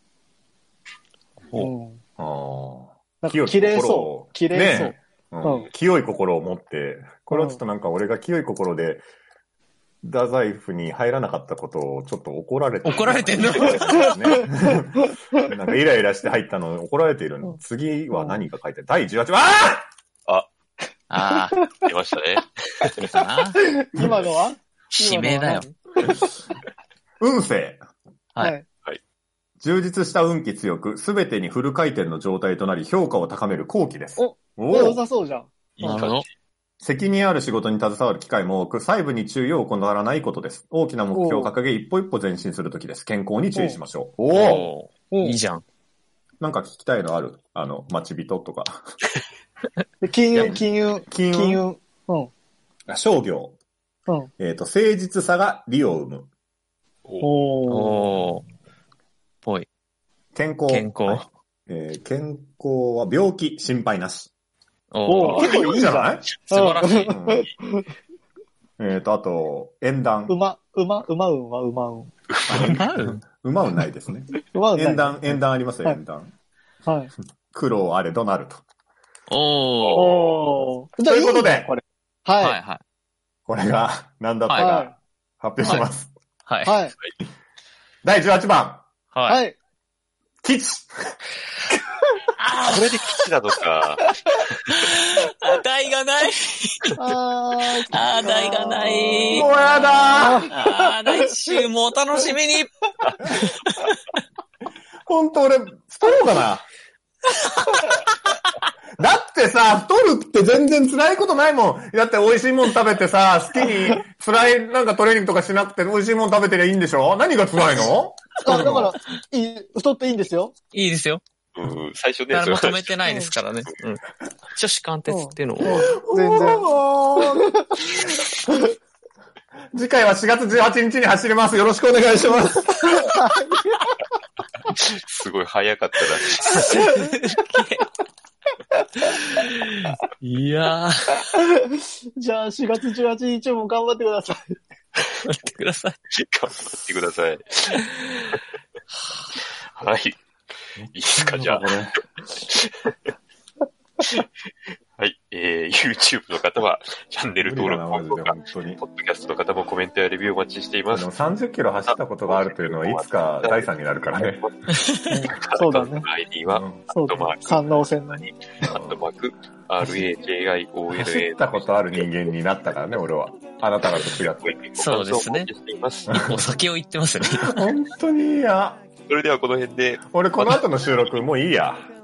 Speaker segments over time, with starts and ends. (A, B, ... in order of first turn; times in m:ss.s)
0:01.6-0:02.0 A
0:02.2-0:09.0 B
0:03.2-0:05.7 A
0:07.3-0:07.6 A
0:10.0-0:19.9 B
0:12.8-0:14.2 C
0:13.9-0:15.4 A
0:21.1-0:21.7 C
0:21.3-0:21.9 A
0:21.8-0:23.0 D
0:22.9-0:23.6 C
0:23.6-0:26.2 A
0:24.9-0:25.7 C
0:27.2-0:27.8 B
0:28.4-0:28.6 A
0:29.6-0:35.0 B
0:34.2-0:36.0 A
0:35.8-0:36.3 D
0:35.8-0:36.2 C
0:36.8-0:44.7 B
0:41.1-0:41.5 A
0:43.5-0:43.8 A
0:44.3-0:45.6 C
0:45.1-0:45.4 A
0:46.4-0:48.9 B
0:50.0-0:52.3 A
0:50.3-0:51.6 B
0:52.9-0:53.6 B
0:54.4-0:56.3 B
0:57.2-0:58.0 A
0:57.7-0:58.4 C
1:00.3-1:04.3 B
1:00.7-1:01.2 C
1:04.9-1:05.5 C
1:05.0-1:07.8 A
1:05.2-1:05.6 D
1:05.3-1:07.5 B
1:06.5-1:07.2 C
1:08.8-1:10.3 B
1:10.3-1:12.1 A
1:12.3-1:12.8 D
1:12.5-1:16.3 B
1:12.6-1:13.2 C
1:14.5-1:15.2 A
1:16.8-1:17.1 A
1:17.5-1:18.6 B
1:19.3-1:20.1 C
1:19.8-1:20.4 D
1:20.0-1:22.6 A
1:21.0-1:21.7 B
1:22.4-1:22.8 C
1:23.5-1:26.1 B
1:24.5-1:24.7 C
1:24.6-1:24.9 A
1:25.6-1:25.8 C
1:26.5-1:26.8 C
1:26.6-1:26.9 A
1:28.0-1:28.8 B
1:29.1-1:29.4 C
1:29.3-1:29.6 A
1:30.4-1:31.2 B
1:32.4-1:33.2 C
1:32.6-1:34.0 D
1:34.7-1:37.0 C
1:37.0-1:39.5 A
1:37.9-1:43.9 C
1:39.2-1:40.5 B
1:40.1-1:41.6 A
1:45.0-1:46.6 B
1:49.0-1:58.9 B
1:58.4-2:00.5 A
2:00.7-2:01.2 C
2:01.6-2:03.0 D
2:02.3-2:05.9 C
2:05.1-2:07.9 A
2:05.6-2:08.2 B
2:09.7-2:13.1 B
2:12.9-2:13.8 A
2:14.7-2:16.6 D
2:16.3-2:17.9 C
2:19.1-2:21.3 C
2:21.3-2:24.6 A
2:25.2-2:26.0 C
2:26.2-2:28.4 D
2:27.8-2:28.2 C
2:29.7-2:30.2 D
2:30.8-2:32.0 B
2:30.9-2:31.7 D
2:32.3-2:33.0 D
2:35.0-2:41.1 D
2:37.4-2:38.8 B
2:40.9-2:44.6 B
2:41.9-2:47.6 D
2:45.1-2:46.0 A
2:46.5-2:46.8 B
2:46.9-2:48.7 A
2:48.6-2:52.0 D
2:50.9-2:54.6 B
2:53.9-2:56.3 D
2:54.8-2:55.5 C
2:56.2-2:57.7 C
2:57.5-2:58.8 B
2:59.1-3:00.6 D
3:00.1-3:01.8 B